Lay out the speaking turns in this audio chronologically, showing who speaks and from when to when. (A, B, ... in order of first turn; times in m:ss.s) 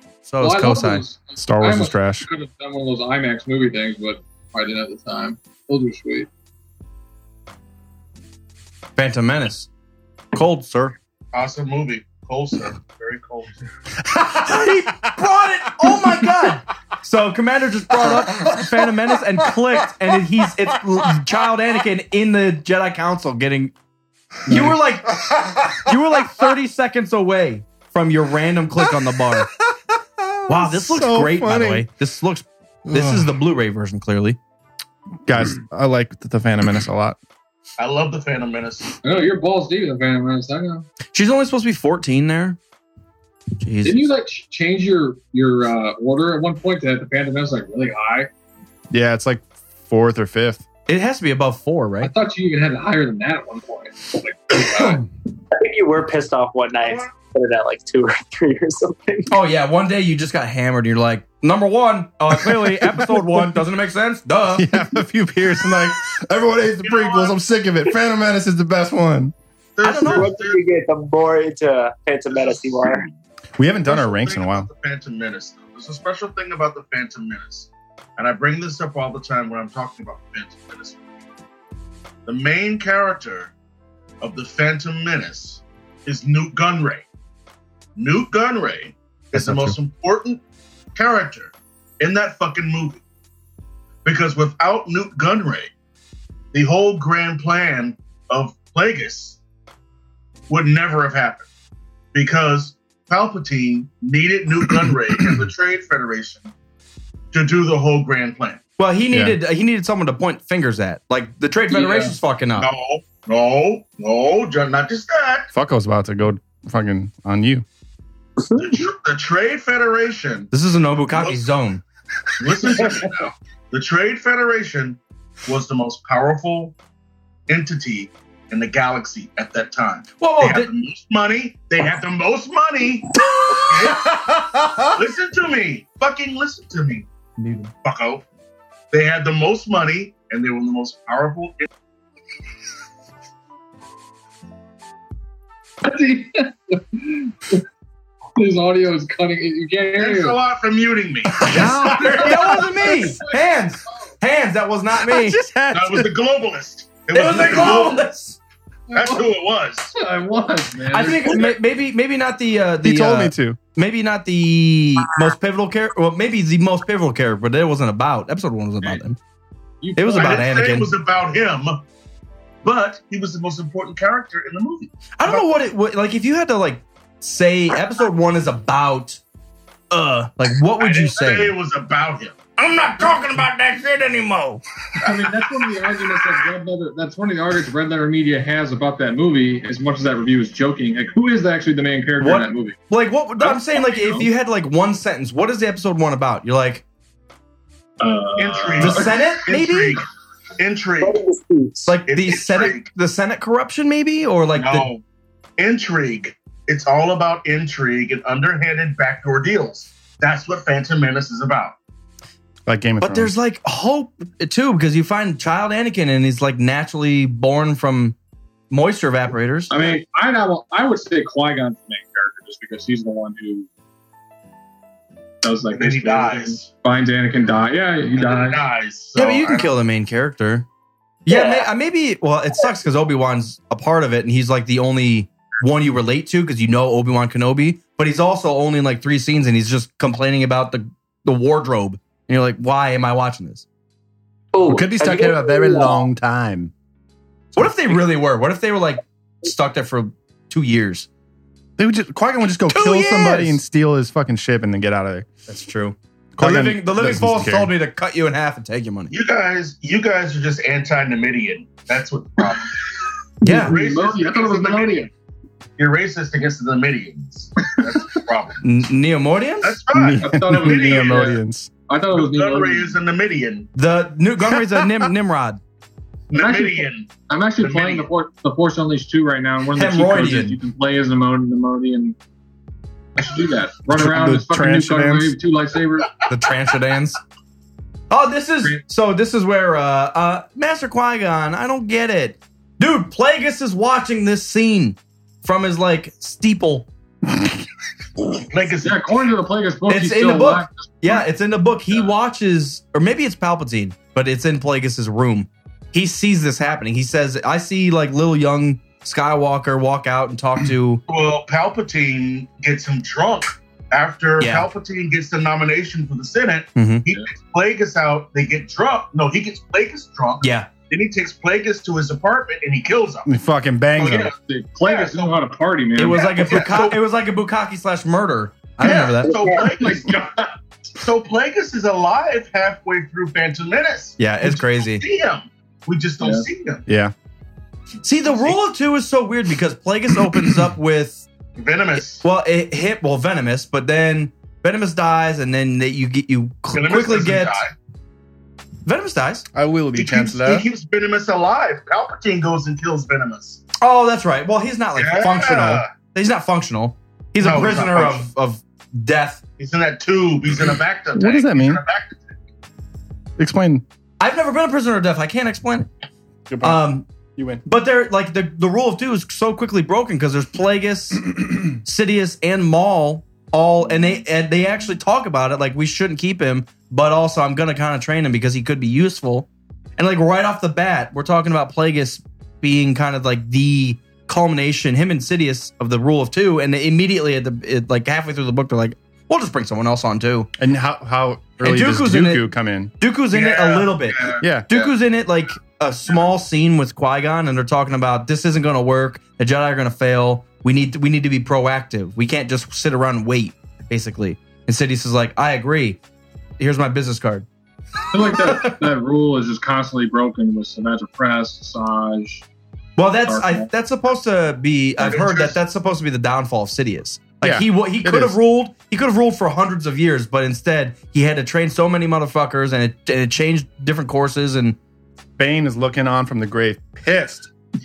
0:00.2-0:01.0 A
0:00.4-0:06.3 B
0:01.4-0:02.3 C
0:09.0-0:09.7 A
0:10.3-0:11.0 A
0:11.3-0:13.7 D
0:14.0-0:15.1 C
0:14.4-0:23.7 A
0:18.0-0:18.7 C
0:24.4-0:25.9 C
0:24.4-0:29.5 A
0:29.3-0:31.8 C
0:30.5-0:34.4 A
0:32.9-0:33.3 C
0:35.2-0:37.2 C
0:37.8-0:38.9 D
0:39.0-0:40.9 B
0:41.1-0:42.6 A
0:43.6-0:44.0 A
0:43.8-0:48.3 B
0:48.9-0:50.6 C
0:50.9-0:52.1 A
0:52.0-0:55.0 B
0:55.5-0:59.4 E
0:56.8-0:57.1 D
0:59.3-1:04.7 A
1:02.6-1:03.2 C
1:04.6-1:09.3 C
1:06.8-1:07.4 D
1:09.8-1:10.6 D
1:09.8-1:10.3 A
1:10.0-1:13.0 E
1:12.3-1:13.1 D
1:13.6-1:14.7 C
1:13.9-1:21.0 D
1:22.2-1:23.5 D
1:24.2-1:27.0 D
1:28.0-1:30.4 D
1:30.9-1:33.0 D
1:34.0-1:35.7 D
1:36.5-1:39.4 D
1:40.5-1:41.5 D
1:42.1-1:46.5 D
1:47.3-1:48.6 D
1:48.8-1:52.7 A
1:49.1-1:49.4 C
1:51.7-1:52.1 B
1:52.6-1:55.5 D
1:55.5-1:57.6 C
1:58.6-2:00.5 D
2:00.5-2:01.8 A
2:01.1-2:01.4 D
2:02.4-2:06.7 D
2:07.5-2:13.1 D
2:10.2-2:10.7 A
2:13.4-2:14.9 C
2:13.7-2:14.2 D
2:14.9-2:17.1 D
2:17.4-2:17.7 A
2:17.8-2:18.2 D
2:18.9-2:21.7 D
2:25.8-2:27.6 B
2:28.4-2:30.4 B
2:30.0-2:32.3 D
2:31.4-2:33.0 C
2:31.5-2:35.4 A
2:31.6-2:33.3 B
2:35.0-2:36.1 C
2:35.7-2:38.0 D
2:37.1-2:38.4 A
2:38.9-2:39.3 B
2:38.9-2:39.9 D
2:39.9-2:41.5 B
2:40.9-2:49.2 A
2:42.8-2:43.6 C
2:49.8-2:50.5 B
2:50.0-2:50.9 A
2:50.1-2:51.8 D
2:52.6-2:55.5 D
2:55.2-2:59.2 A
2:59.9-3:01.5 A
3:00.8-3:04.4 D
3:05.0-3:12.8 B
3:12.2-3:16.8 A
3:18.0-3:19.3 B
3:18.4-3:20.0 D
3:18.8-3:20.0 A
3:20.6-3:21.2 D
3:21.0-3:21.9 E
3:21.8-3:24.9 A
3:22.1-3:22.8 D
3:24.5-3:25.0 D
3:25.6-3:31.7 D
3:32.7-3:33.3 C
3:33.0-3:38.2 A
3:38.7-3:39.7 A
3:39.7-3:43.7 B
3:45.4-3:48.6 B
3:45.7-3:46.7 D
3:48.1-3:49.7 D
3:49.2-3:50.7 A
3:51.2-4:03.6 A
3:51.3-3:51.7 E
4:04.5-4:06.0 E
4:04.6-4:06.7 C
4:07.5-4:11.1 A
4:11.8-4:15.3 C
4:12.7-4:13.6 A
4:15.5-4:19.1 A
4:16.4-4:17.7 C
4:19.1-4:22.8 D
4:23.4-4:23.7 A
4:23.4-4:25.1 B
4:23.5-4:25.1 D
4:25.8-4:28.6 D
4:28.6-4:29.8 A
4:29.6-4:31.4 D
4:29.9-4:31.7 C
4:30.2-4:32.9 B
4:32.1-4:33.7 D
4:33.7-4:35.6 A
4:36.3-4:38.1 D
4:36.3-4:42.2 B
4:39.7-4:40.6 A
4:43.2-4:46.1 B
4:43.9-4:45.4 C
4:46.3-4:47.2 A
4:48.1-4:56.9 A
4:58.5-4:59.3 D
4:58.8-5:01.2 B
4:59.9-5:11.0 A
5:11.1-5:23.3 D
5:14.4-5:14.7 A
5:16.8-5:17.1 A
5:20.4-5:20.7 A
5:23.2-5:24.3 C
5:24.0-5:25.4 D
5:24.5-5:26.6 B
5:26.0-5:29.4 A
5:26.0-5:27.0 D
5:28.8-5:30.2 D
5:29.2-5:29.8 E
5:29.5-5:30.5 B
5:31.0-5:36.8 D
5:34.2-5:35.0 A
5:36.2-5:36.4 B
5:36.9-5:37.1 C
5:38.0-5:41.2 A
5:38.2-5:38.6 D
5:41.6-5:42.2 D
5:42.0-5:47.6 A
5:46.7-5:47.7 D
5:48.8-5:49.4 A
5:49.5-5:50.6 C
5:49.9-5:53.6 D
5:53.8-5:59.4 A
5:55.0-5:55.9 D
5:57.4-5:58.2 D
5:59.6-6:02.3 D
6:01.1-6:01.8 C
6:03.4-6:03.8 C
6:04.2-6:05.9 A
6:06.5-6:07.6 C
6:06.6-6:07.1 A
6:07.6-6:30.5 A
6:30.6-6:32.9 C
6:31.6-6:32.5 A
6:33.0-6:46.0 A
6:33.3-6:34.8 D
6:34.4-6:34.7 C
6:46.6-6:47.4 A
6:48.1-6:52.4 B
6:48.4-6:48.8 A
6:53.0-7:04.8 A
6:53.3-6:53.7 B
6:55.0-6:55.6 D
6:57.4-6:58.4 C
7:05.4-7:07.5 C